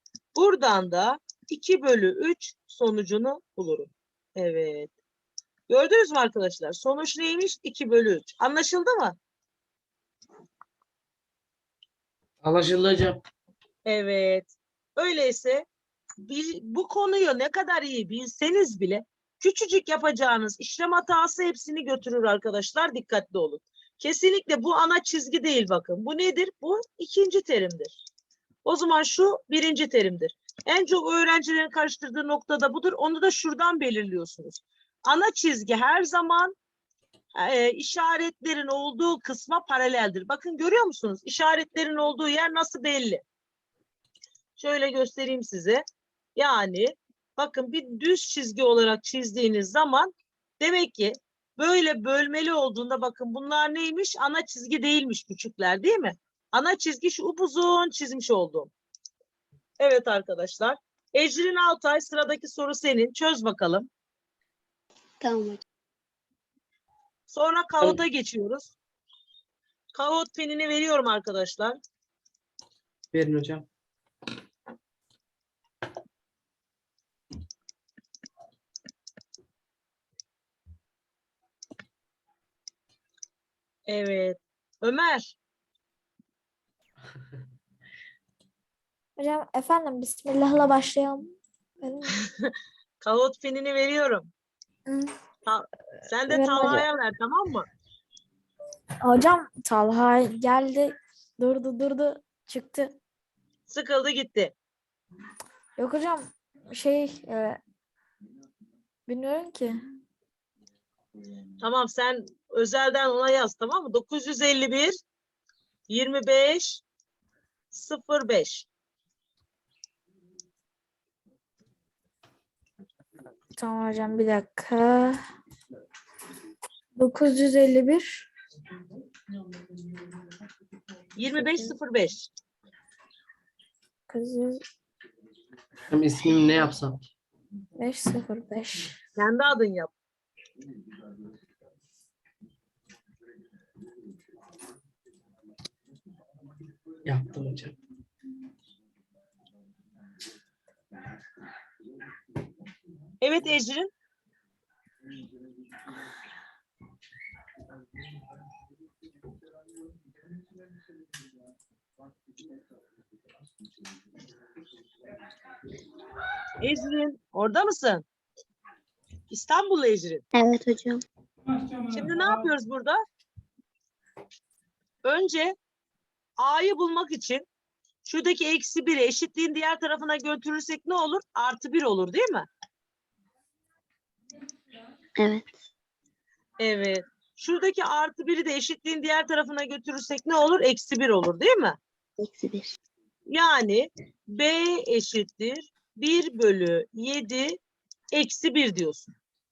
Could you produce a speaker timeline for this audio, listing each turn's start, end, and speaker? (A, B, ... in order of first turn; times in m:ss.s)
0:00.4-0:04.9 A
0:05.7-0:09.2 A
0:12.4-0:13.2 B
0:13.8-0:15.7 A
0:16.2-0:27.9 A
0:28.6-0:36.6 A
0:37.4-0:43.2 A
0:44.6-0:45.8 A
0:46.4-0:58.7 A
0:59.8-1:03.9 A
1:05.2-1:05.6 C
1:07.3-1:08.7 A
1:09.9-1:11.8 A
1:13.1-1:13.7 B
1:23.9-1:25.4 A
1:29.2-1:32.2 D
1:32.2-1:34.3 A
1:34.9-1:35.1 D
1:35.5-1:37.7 A
1:36.3-1:36.9 D
1:39.0-1:42.9 D
1:43.7-1:44.5 A
1:45.8-1:47.6 D
1:49.1-1:49.8 D
1:51.6-1:55.0 A
1:55.9-1:56.8 A
1:57.7-1:58.7 A
2:03.6-2:05.2 D
2:07.0-2:08.3 D
2:11.2-2:12.3 A
2:11.4-2:11.7 D
2:14.1-2:14.6 D
2:15.9-2:17.0 B
2:17.8-2:18.9 D
2:19.2-2:19.9 A
2:27.0-2:27.8 B
2:33.2-2:33.9 A
2:46.6-2:48.0 A
2:49.3-2:50.2 A
2:50.3-2:51.0 C
2:51.9-2:53.0 A
2:55.0-2:55.6 A
2:56.4-2:57.4 A
2:58.0-3:02.5 A
3:05.2-3:05.5 C
3:06.6-3:11.8 A
3:12.2-3:12.8 C
3:13.3-3:17.6 A
3:18.1-3:19.1 A